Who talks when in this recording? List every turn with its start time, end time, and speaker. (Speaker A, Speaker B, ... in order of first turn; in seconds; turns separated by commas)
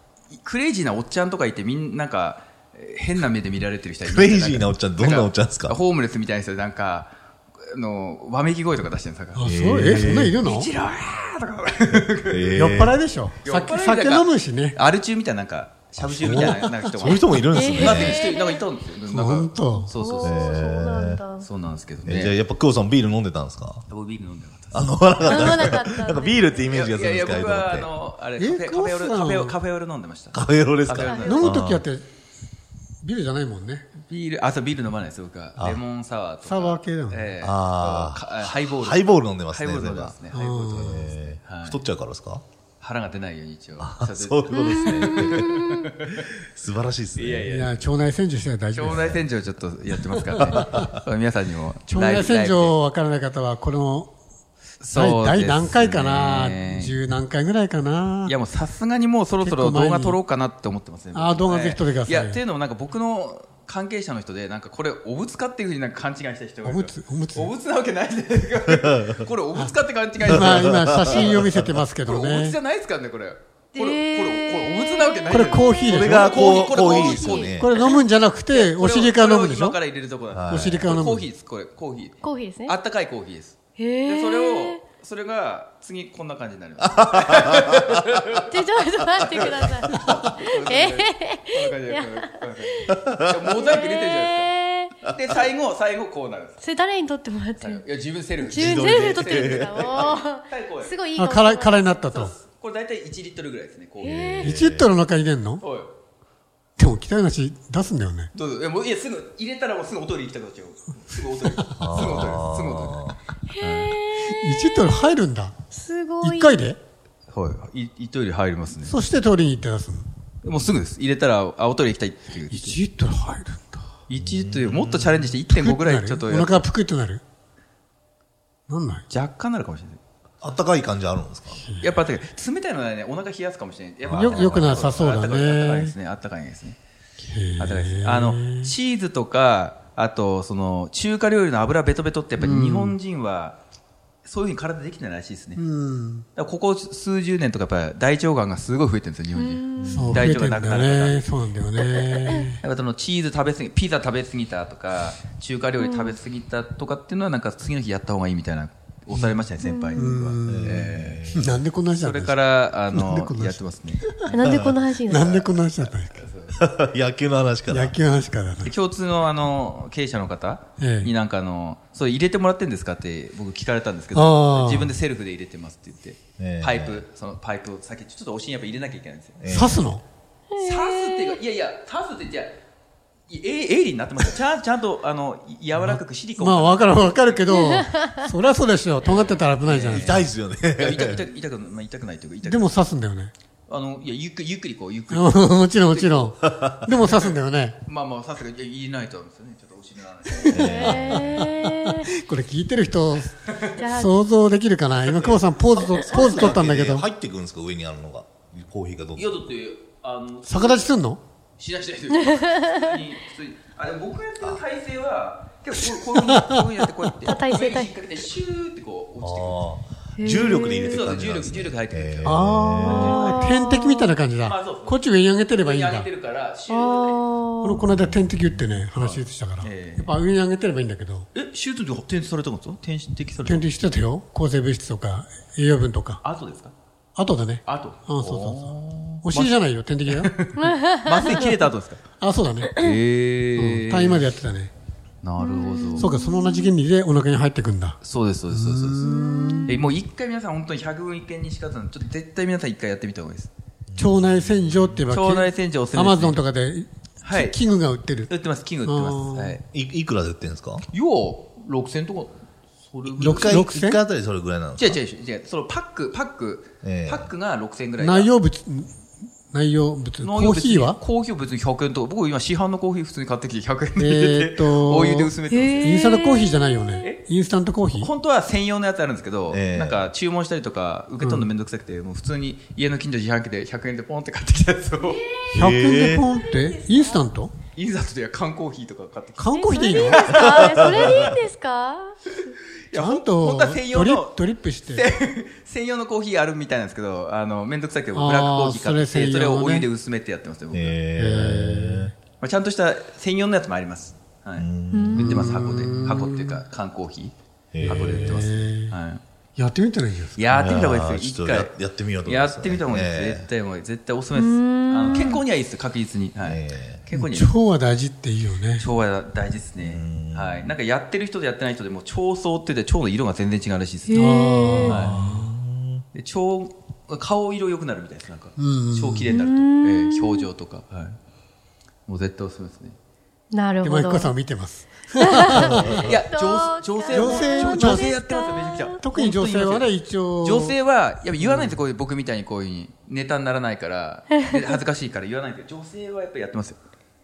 Speaker A: 0.3-12.7, Speaker B: 4.0-5.8, Speaker C: 9.3-10.7, Speaker B: 9.4-10.4, Speaker B: 12.3-13.0, Speaker C: 12.6-14.8, Speaker A: 13.4-20.7, Speaker B: 16.0-18.2, Speaker C: 16.2-17.1, Speaker D: 17.5-18.6, Speaker C: 19.1-19.9, Speaker D: 19.9-21.5, Speaker B: 20.2-21.2, Speaker A: 21.4-22.4, Speaker B: 22.1-23.9, Speaker A: 23.9-25.7, Speaker B: 24.7-27.9, Speaker D: 25.2-26.7, Speaker A: 26.7-31.6, Speaker C: 28.4-29.6, Speaker B: 30.3-31.8, Speaker D: 31.0-31.4, Speaker C: 31.2-32.0, Speaker C: 33.0-33.9, Speaker A: 34.1-41.8, Speaker C: 36.4-37.3, Speaker B: 37.4-40.2, Speaker C: 40.3-41.1, Speaker B: 40.7-42.4, Speaker A: 42.8-46.3, Speaker B: 43.8-45.7, Speaker D: 45.1-45.7, Speaker B: 46.5-47.5, Speaker A: 47.1-47.8, Speaker C: 47.5-49.2, Speaker A: 48.7-52.8, Speaker B: 48.9-49.2, Speaker B: 50.4-50.6, Speaker C: 50.6-50.9, Speaker C: 51.9-54.1, Speaker A: 54.8-57.0, Speaker C: 54.9-58.3, Speaker A: 58.2-71.4, Speaker C: 59.4-60.2, Speaker C: 61.1-62.4, Speaker C: 66.6-67.5, Speaker B: 68.7-69.2, Speaker C: 69.5-72.6, Speaker B: 70.2-71.7, Speaker A: 72.0-77.9, Speaker D: 73.7-77.5, Speaker C: 75.3-76.4, Speaker B: 75.8-77.7, Speaker C: 77.6-79.8, Speaker A: 78.5-96.6, Speaker B: 80.3-80.9, Speaker C: 80.5-81.2, Speaker D: 82.2-82.8, Speaker D: 83.8-84.8, Speaker B: 87.0-87.8, Speaker D: 88.5-93.0, Speaker D: 93.5-95.1, Speaker D: 96.6-97.8, Speaker A: 97.6-101.0, Speaker D: 98.4-102.1, Speaker B: 98.4-100.1, Speaker C: 101.2-102.3, Speaker A: 102.1-104.5, Speaker D: 104.0-104.6, Speaker B: 104.4-104.9, Speaker C: 104.4-105.6, Speaker A: 105.6-105.9, Speaker C: 106.8-108.3, Speaker A: 108.3-114.0, Speaker B: 111.8-113.2, Speaker D: 113.5-115.0, Speaker C: 114.1-115.5, Speaker D: 115.7-116.7, Speaker C: 116.2-116.8, Speaker A: 117.3-119.0, Speaker C: 118.8-120.1, Speaker A: 120.4-122.8, Speaker C: 122.5-123.9, Speaker A: 124.1-126.7, Speaker B: 124.2-125.1, Speaker C: 125.5-127.2, Speaker C: 128.7-129.0, Speaker A: 129.1-130.0, Speaker B: 130.4-131.6, Speaker C: 131.5-132.0, Speaker A: 131.8-136.8, Speaker B: 134.0-134.8, Speaker C: 134.1-135.9, Speaker C: 137.2-138.7, Speaker A: 137.6-143.6, Speaker C: 142.4-143.0, Speaker A: 144.2-145.6, Speaker C: 145.6-146.2, Speaker A: 146.3-151.2, Speaker D: 149.3-150.1, Speaker B: 149.8-150.4, Speaker C: 149.9-152.6, Speaker A: 152.6-161.2, Speaker D: 155.8-156.2, Speaker D: 159.6-160.1, Speaker C: 159.9-164.5, Speaker B: 160.4-161.6, Speaker A: 161.9-164.1, Speaker D: 164.3-165.4, Speaker B: 164.3-164.8, Speaker C: 165.0-166.1, Speaker A: 165.8-166.6, Speaker B: 166.5-167.9, Speaker C: 167.7-168.7, Speaker A: 168.6-179.4, Speaker C: 170.8-171.1, Speaker C: 174.1-174.9, Speaker B: 176.4-177.0, Speaker B: 179.4-179.8, Speaker C: 179.5-180.0, Speaker D: 180.5-181.4, Speaker A: 180.6-182.6, Speaker A: 183.3-187.4, Speaker C: 185.8-190.2, Speaker D: 187.5-188.0, Speaker A: 189.0-192.8, Speaker B: 189.9-191.2, Speaker C: 192.4-193.3, Speaker A: 193.7-196.3, Speaker C: 195.1-197.8, Speaker A: 197.0-197.3, Speaker A: 197.8-201.1, Speaker D: 200.5-202.1, Speaker B: 200.5-201.5, Speaker C: 200.6-203.3, Speaker D: 203.8-204.1, Speaker C: 203.8-207.0, Speaker A: 205.1-205.4, Speaker B: 206.0-209.3, Speaker A: 209.1-210.9, Speaker C: 210.4-211.2, Speaker A: 211.6-219.6, Speaker C: 216.2-216.7, Speaker D: 217.2-218.0, Speaker B: 219.2-223.2, Speaker D: 220.2-221.1, Speaker A: 220.6-223.5, Speaker C: 222.2-226.1, Speaker D: 222.8-224.1, Speaker A: 224.4-225.0, Speaker A: 225.6-227.2, Speaker D: 226.7-227.8, Speaker C: 227.6-231.3, Speaker B: 227.9-228.4, Speaker A: 228.9-230.2, Speaker A: 231.3-233.7, Speaker C: 233.4-236.2, Speaker A: 236.2-236.7, Speaker C: 237.2-240.4, Speaker A: 237.7-239.6, Speaker A: 240.1-242.0, Speaker D: 240.6-241.5, Speaker C: 242.2-242.8, Speaker A: 242.7-244.3, Speaker C: 243.6-244.7, Speaker A: 245.2-246.1, Speaker D: 245.4-246.7, Speaker C: 245.9-249.8, Speaker A: 248.0-249.1, Speaker D: 249.0-249.7, Speaker A: 249.7-253.5, Speaker B: 253.9-255.0, Speaker C: 254.0-258.3, Speaker A: 255.1-256.4, Speaker A: 257.2-257.6, Speaker A: 258.3-259.6, Speaker C: 258.8-259.6, Speaker B: 259.7-260.8, Speaker A: 260.9-263.6, Speaker C: 263.1-264.0, Speaker B: 263.2-265.0, Speaker A: 264.8-268.3, Speaker B: 266.8-267.3, Speaker C: 268.0-268.9, Speaker C: 269.5-271.0, Speaker A: 270.2-275.9, Speaker C: 274.0-278.1, Speaker D: 275.5-276.8, Speaker A: 277.9-285.4, Speaker B: 279.5-280.0, Speaker C: 281.2-281.5, Speaker D: 285.0-287.2, Speaker B: 285.5-286.3, Speaker C: 285.5-287.5, Speaker A: 287.7-291.0, Speaker C: 289.4-290.3, Speaker D: 289.5-292.1, Speaker B: 290.4-291.1, Speaker A: 292.9-301.0, Speaker C: 292.9-295.1, Speaker C: 298.1-299.9, Speaker B: 300.7-302.1, Speaker C: 301.1-302.1, Speaker A: 302.4-307.3, Speaker B: 304.6-305.4, Speaker D: 304.9-305.4, Speaker C: 305.2-306.6, Speaker B: 307.7-308.4, Speaker C: 307.8-308.9, Speaker A: 307.9-309.2, Speaker C: 309.6-310.5, Speaker A: 310.4-311.7, Speaker B: 310.5-313.4, Speaker A: 312.2-317.5, Speaker D: 314.3-315.4, Speaker B: 316.4-317.0, Speaker C: 317.1-318.8, Speaker A: 318.8-325.2, Speaker B: 319.8-320.7, Speaker D: 324.1-325.0, Speaker C: 324.1-325.5, Speaker B: 325.1-326.0, Speaker A: 326.1-331.2, Speaker C: 328.6-329.3, Speaker D: 329.3-330.5, Speaker A: 332.1-332.9, Speaker D: 333.5-334.3, Speaker C: 333.8-336.1, Speaker D: 335.2-339.0, Speaker B: 335.6-336.0, Speaker A: 336.0-346.8, Speaker C: 337.1-338.1, Speaker C: 339.0-340.8, Speaker C: 341.4-341.8, Speaker D: 344.3-344.6